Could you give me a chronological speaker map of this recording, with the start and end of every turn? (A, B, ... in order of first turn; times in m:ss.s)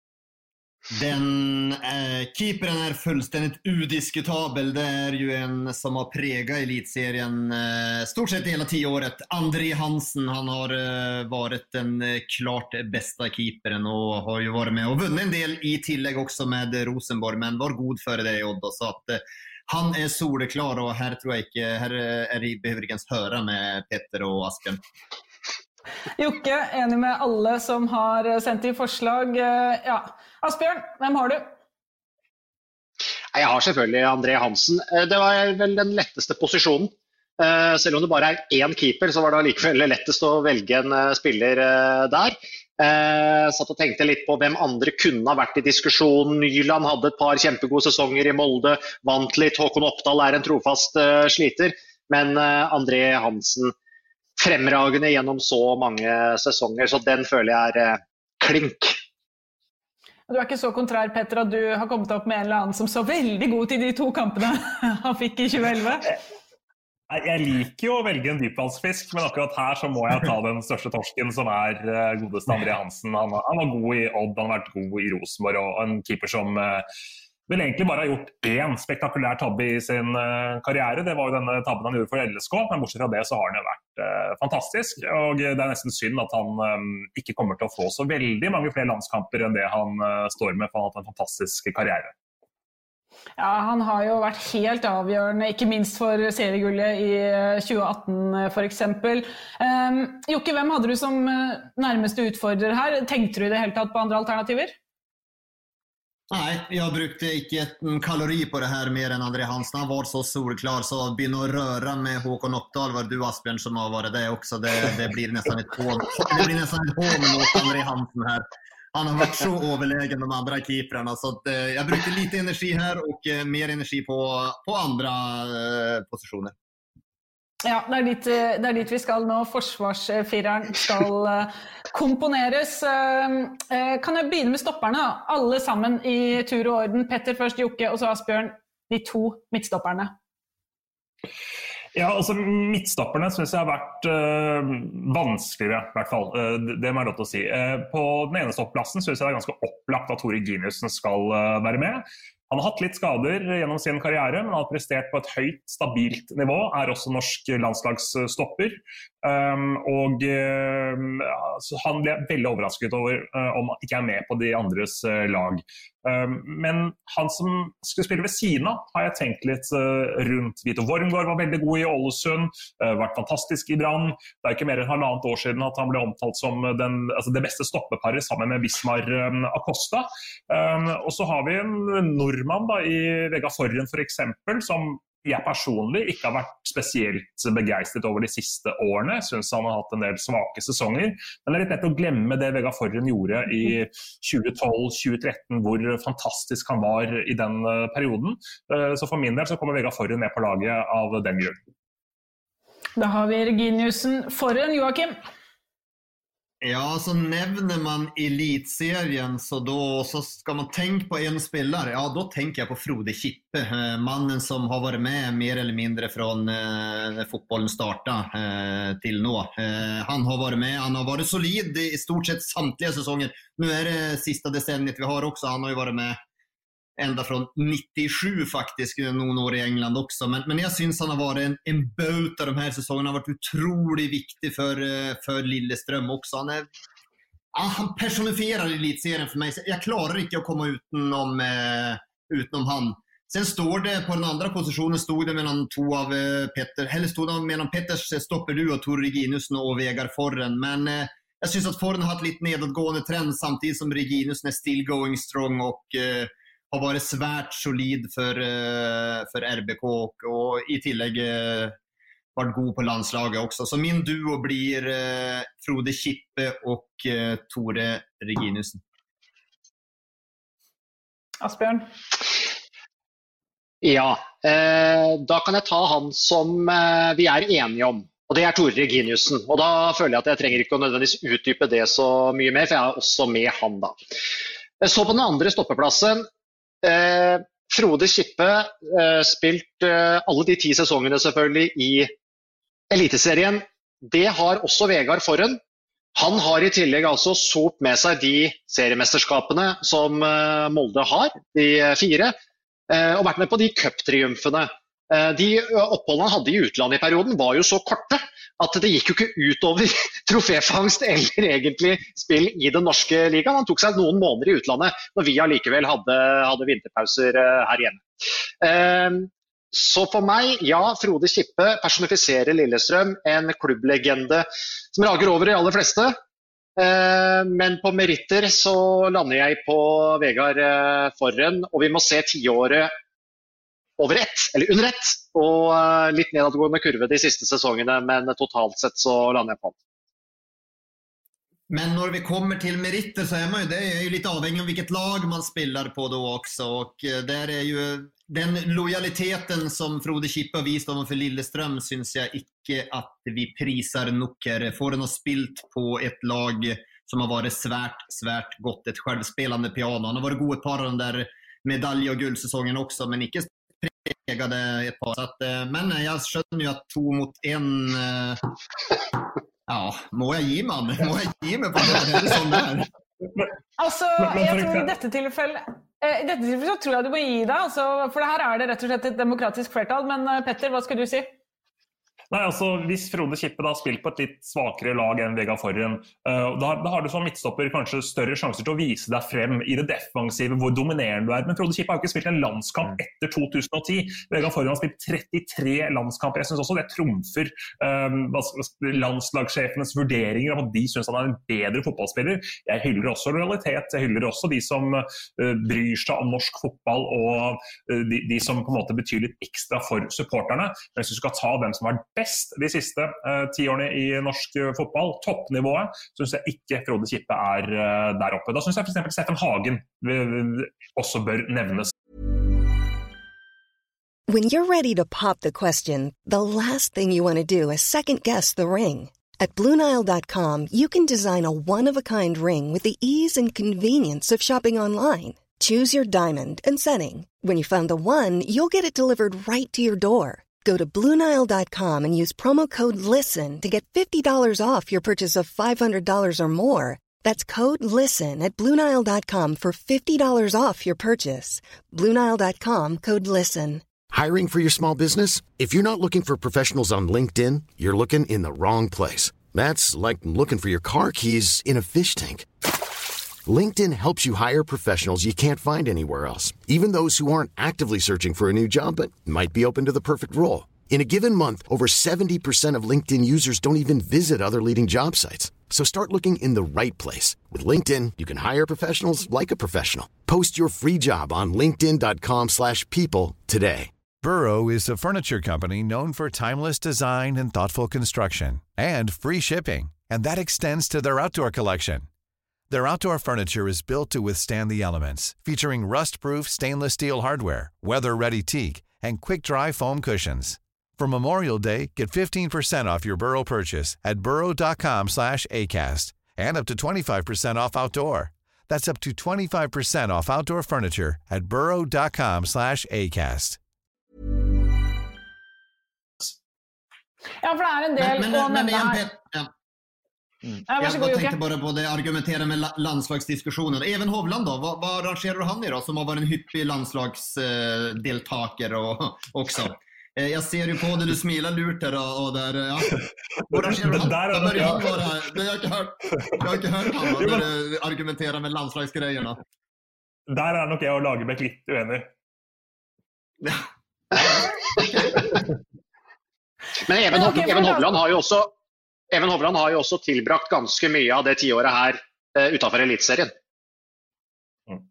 0:00.9-0:24.8 A
0:26.2-0:31.5 B
0:33.3-0:53.7 C
0:54.4-0:59.0 C
1:00.3-1:06.1 B
1:07.1-1:16.9 D
1:17.5-1:32.1 D
1:33.4-1:44.8 B
1:46.3-2:06.5 A
2:07.6-2:20.1 B
2:22.0-3:21.6 D
3:23.0-3:25.2 B
3:26.6-3:46.2 A
3:47.0-3:56.7 A
3:57.5-4:21.8 A
4:22.4-4:28.8 A
4:31.4-4:31.9 B
4:33.8-4:44.0 C
4:44.8-4:46.3 C
4:46.8-4:52.1 C
4:52.9-4:55.6 C
4:56.2-5:02.3 C
5:02.9-5:18.0 C
5:18.6-5:26.2 C
5:26.8-5:32.9 C
5:34.0-5:39.8 C
5:41.7-6:08.4 A
6:09.7-6:12.9 A
6:13.8-6:21.3 B
6:14.2-6:14.9 D
6:22.3-7:01.9 D
7:04.3-7:33.8 E
7:34.1-7:42.5 F
7:43.5-8:03.9 F
8:04.2-8:12.1 G
8:12.7-8:33.6 G
8:37.4-8:39.0 B
8:38.0-8:39.5 A
8:40.7-8:41.4 B
8:40.8-8:59.4 A
8:53.5-8:55.2 D
8:57.2-8:57.4 D
9:00.3-9:02.1 D
9:04.2-9:05.4 A
9:06.8-9:08.5 C
9:07.1-9:07.9 B
9:09.1-9:13.3 C